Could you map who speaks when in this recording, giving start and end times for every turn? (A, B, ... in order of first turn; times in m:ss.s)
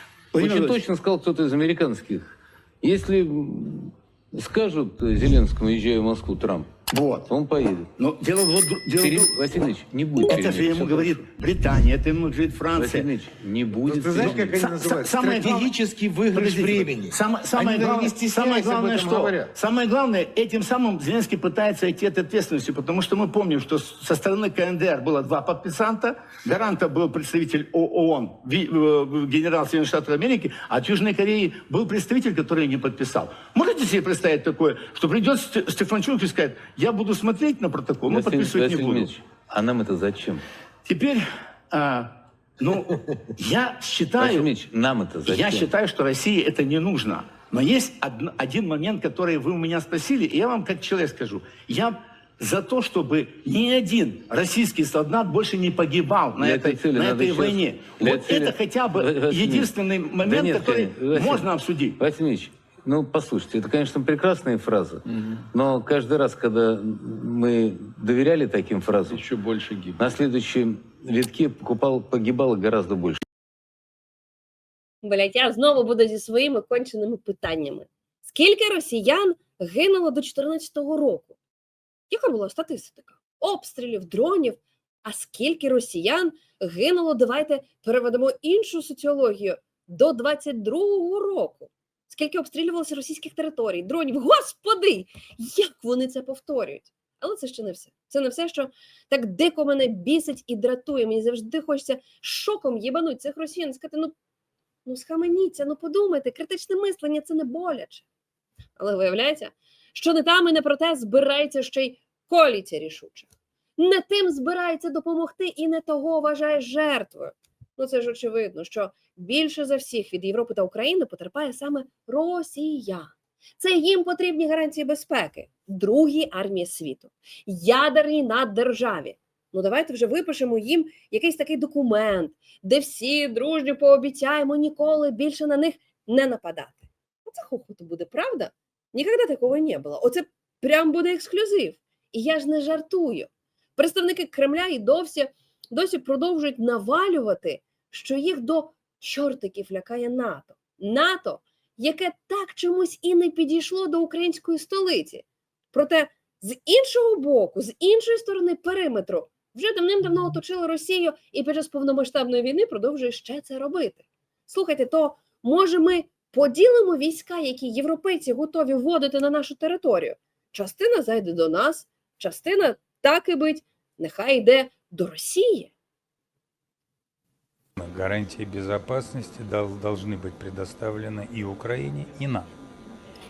0:00.3-0:00.8 A
0:00.4-0:06.8 B
0:06.9-0:07.3 A
0:07.3-0:07.9 B
0:08.0-0:09.4 A
0:09.0-0:11.3 B
0:10.2-0:13.1 A
0:12.7-0:14.7 B
0:13.9-0:39.1 A
0:14.0-0:15.7 C
0:17.6-0:18.7 C
0:38.1-0:40.4 B
0:40.8-0:44.5 A
0:44.2-0:45.7 B
0:45.3-1:02.0 A
0:56.4-0:59.7 B
1:00.2-1:09.3 B
1:09.4-1:09.9 C
1:10.0-1:13.2 B
1:15.0-1:21.4 D
1:22.1-1:44.1 D
1:44.9-1:48.0 D
1:48.8-1:53.3 D
1:53.8-2:55.7 D
2:57.8-3:02.5 E